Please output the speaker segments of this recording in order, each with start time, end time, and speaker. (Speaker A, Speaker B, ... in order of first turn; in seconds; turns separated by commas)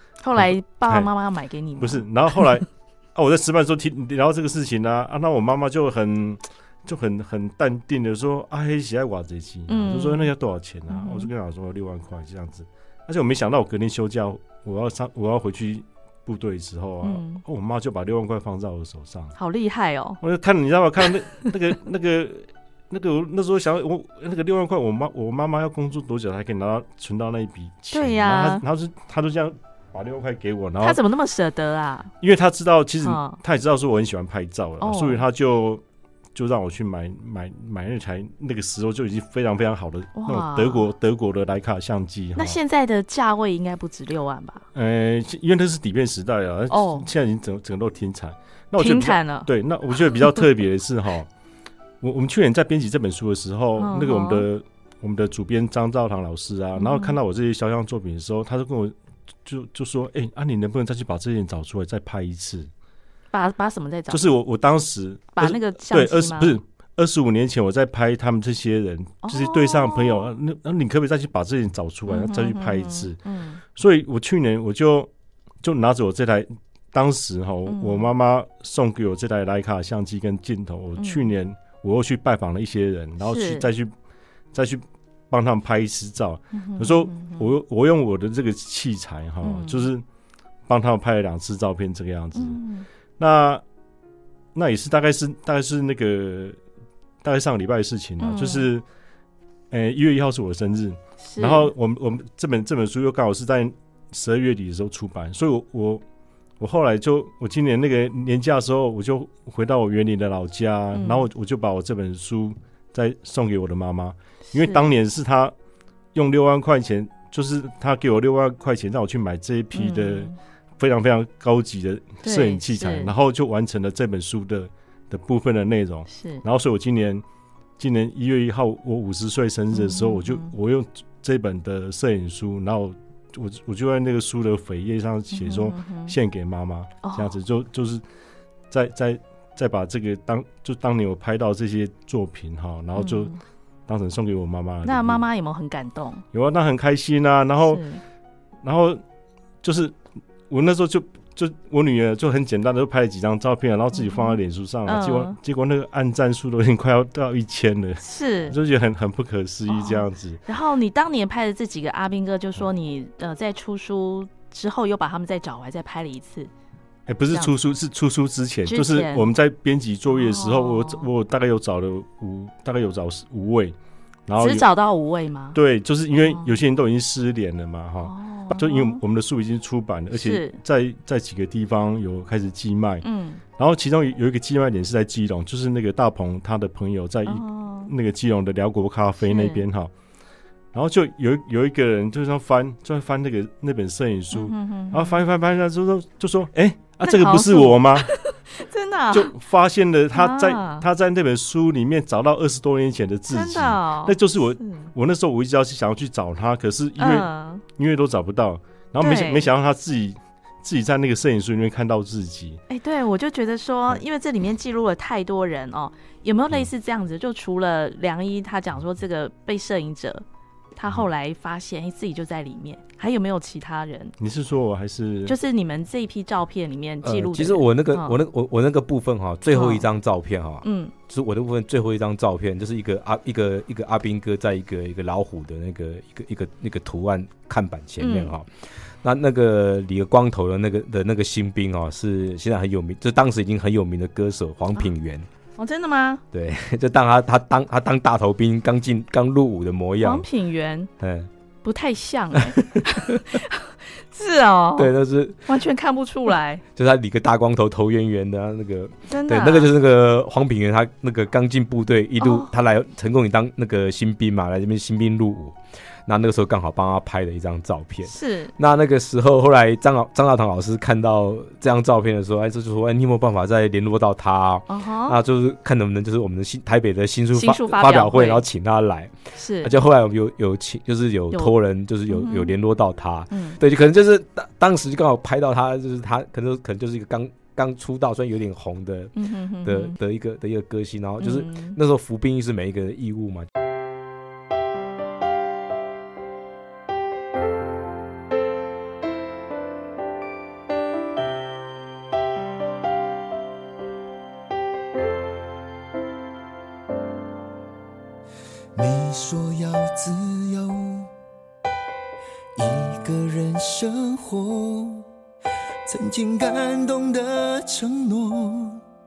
Speaker A: 0.2-2.6, Speaker B: 0.3-1.1, Speaker B: 1.8-19.4, Speaker A: 9.7-10.3, Speaker A: 10.9-11.3, Speaker A: 17.0-17.4, Speaker A: 19.4-20.2, Speaker B: 20.2-31.0, Speaker A: 27.9-28.6, Speaker A: 30.8-32.1, Speaker B: 32.2-35.8, Speaker A: 33.0-33.4, Speaker A: 34.8-35.2, Speaker B: 36.3-42.6, Speaker A: 40.1-40.9, Speaker A: 42.4-44.6, Speaker B: 44.7-51.3, Speaker A: 46.7-47.1, Speaker A: 48.8-49.5, Speaker A: 50.1-50.4, Speaker B: 52.0-62.7, Speaker A: 53.8-54.5, Speaker A: 56.8-57.2, Speaker A: 63.3-64.2, Speaker B: 64.1-73.2, Speaker A: 65.4-66.6, Speaker A: 69.2-70.3, Speaker A: 72.1-73.6, Speaker B: 73.7-75.1, Speaker B: 75.6-83.9, Speaker A: 77.7-78.1, Speaker A: 81.0-81.3, Speaker A: 83.2-83.7, Speaker B: 84.5-90.0, Speaker A: 86.5-87.5, Speaker A: 89.4-89.9, Speaker B: 90.7-92.6, Speaker A: 92.3-92.9, Speaker B: 93.2-93.6, Speaker B: 94.5-96.6, Speaker B: 97.2-98.8, Speaker A: 98.2-98.7, Speaker B: 99.7-106.0, Speaker A: 101.2-101.7, Speaker B: 106.6-115.5, Speaker A: 110.9-111.3, Speaker A: 114.5-114.9, Speaker B: 116.1-127.2, Speaker A: 119.7-120.3, Speaker A: 122.2-123.1, Speaker A: 126.1-126.4, Speaker B: 127.8-138.0, Speaker A: 129.7-130.5, Speaker A: 135.3-136.2, Speaker A: 137.0-137.4, Speaker B: 138.7-143.3, Speaker A: 143.0-143.4, Speaker B: 143.9-145.2, Speaker A: 144.8-146.2, Speaker B: 146.3-147.8, Speaker A: 147.6-148.0, Speaker B: 148.6-149.0, Speaker B: 149.6-160.4, Speaker A: 153.9-155.4, Speaker A: 158.0-158.5, Speaker A: 159.7-166.5, Speaker B: 167.1-173.8, Speaker A: 168.7-169.3, Speaker A: 170.1-171.1, Speaker B: 174.3-174.7, Speaker A: 174.4-175.6, Speaker B: 175.5-183.0, Speaker A: 176.2-176.5, Speaker A: 178.0-179.0, Speaker A: 180.1-180.6, Speaker A: 183.0-183.4, Speaker B: 183.6-189.9, Speaker A: 187.2-187.9, Speaker A: 189.2-189.6, Speaker B: 190.7-198.1, Speaker A: 194.3-195.2, Speaker A: 197.0-199.3, Speaker B: 199.1-212.6, Speaker A: 200.1-200.8, Speaker A: 203.3-204.9, Speaker A: 207.0-207.6, Speaker A: 209.0-209.5, Speaker A: 212.7-220.2, Speaker A: 220.8-224.1, Speaker B: 224.2-225.4, Speaker A: 225.2-228.2, Speaker C: 227.0-238.5, Speaker A: 229.5-229.8, Speaker A: 230.6-230.9, Speaker A: 238.0-238.3, Speaker C: 239.0-245.3, Speaker A: 245.6-246.2, Speaker C: 246.3-250.2, Speaker A: 250.0-250.9, Speaker C: 251.0-251.3, Speaker A: 251.6-254.9, Speaker C: 252.3-253.3, Speaker C: 254.8-255.5, Speaker A: 255.5-256.6, Speaker C: 256.8-293.5, Speaker A: 259.1-259.7, Speaker A: 262.2-262.5, Speaker A: 268.1-268.5, Speaker A: 274.7-275.2, Speaker A: 277.4-278.4, Speaker A: 279.4-279.7, Speaker A: 282.1-282.5, Speaker A: 283.3-283.6, Speaker A: 289.1-290.0, Speaker A: 291.2-291.8, Speaker D: 308.8-311.1, Speaker D: 312.6-315.1, Speaker D: 315.9-318.8